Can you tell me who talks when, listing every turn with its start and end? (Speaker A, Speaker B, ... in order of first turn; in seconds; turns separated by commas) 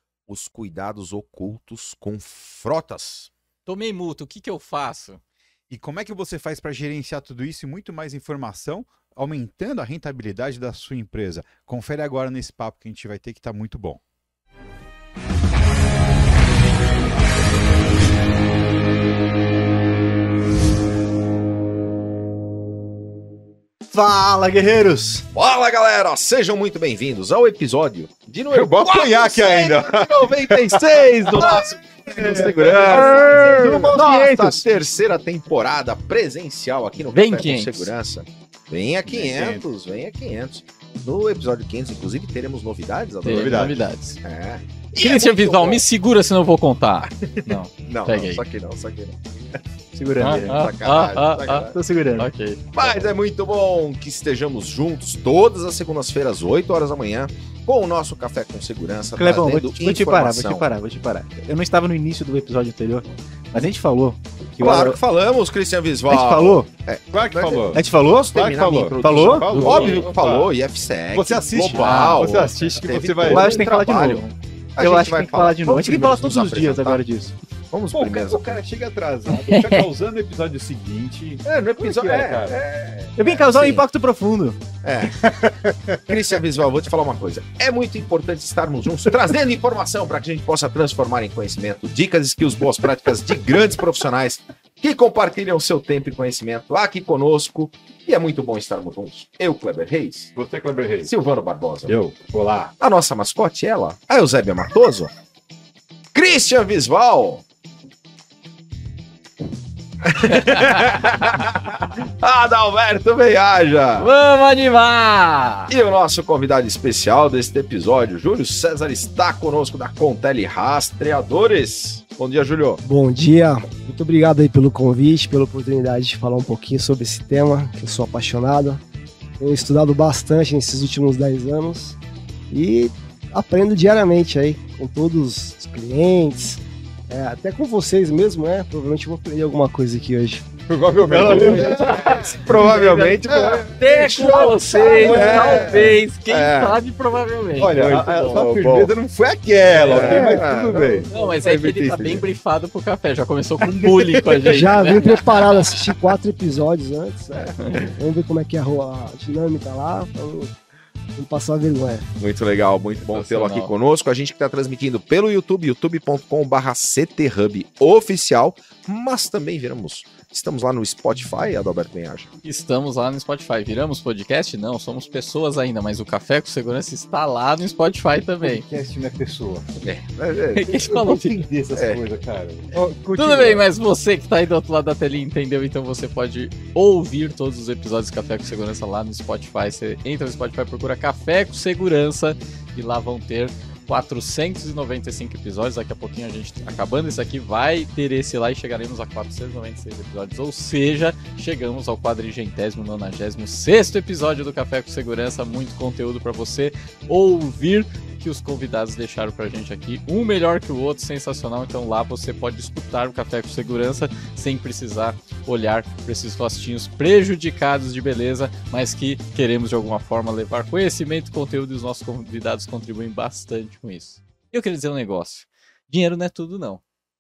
Speaker A: 0.3-3.3, Speaker B: 3.7-5.2, Speaker C: 5.7-14.0, Speaker D: 23.9-25.3, Speaker A: 25.4-45.8, Speaker C: 28.5-31.6, Speaker D: 31.4-34.6, Speaker B: 37.1-37.9, Speaker C: 39.0-39.6, Speaker B: 43.2-44.2, Speaker C: 43.3-43.8, Speaker B: 45.0-48.4, Speaker A: 47.1-49.6, Speaker D: 49.9-50.7, Speaker B: 50.2-52.9, Speaker A: 50.4-51.8, Speaker D: 51.7-52.3, Speaker A: 52.7-60.7, Speaker D: 59.2-65.0, Speaker A: 64.6-74.2, Speaker D: 66.1-66.7, Speaker C: 67.1-70.5, Speaker D: 67.7-68.3, Speaker D: 69.0-69.5, Speaker B: 69.5-70.1, Speaker C: 71.1-73.7, Speaker B: 71.6-72.3, Speaker D: 73.2-77.3, Speaker A: 74.8-77.0, Speaker A: 77.7-78.6, Speaker C: 77.9-82.6, Speaker B: 79.3-79.9, Speaker A: 81.4-83.8, Speaker D: 83.2-84.6, Speaker A: 84.8-85.2, Speaker C: 85.2-86.2, Speaker A: 86.1-100.3, Speaker C: 100.3-101.1, Speaker A: 101.0-101.9, Speaker C: 101.9-102.8, Speaker A: 102.8-105.1, Speaker A: 106.2-107.5, Speaker A: 110.0-114.1, Speaker B: 110.3-110.7, Speaker B: 114.0-115.7, Speaker A: 115.7-122.8, Speaker E: 122.8-128.8, Speaker E: 129.4-132.0, Speaker E: 132.5-140.5, Speaker C: 140.7-141.9, Speaker E: 141.1-142.0, Speaker A: 141.1-146.8, Speaker B: 141.4-142.5, Speaker E: 143.2-145.9, Speaker B: 143.7-148.5, Speaker C: 147.6-152.2, Speaker A: 147.6-149.0, Speaker A: 149.7-151.1, Speaker E: 149.9-150.5, Speaker B: 151.1-155.8, Speaker A: 153.8-154.4, Speaker E: 154.4-160.5, Speaker B: 157.6-157.9, Speaker E: 161.2-162.1, Speaker A: 162.2-172.3, Speaker B: 163.1-163.7, Speaker B: 172.4-178.7, Speaker C: 178.4-179.8, Speaker A: 179.8-181.1, Speaker B: 180.6-181.4, Speaker C: 180.8-183.7, Speaker A: 181.7-182.0, Speaker B: 183.2-226.8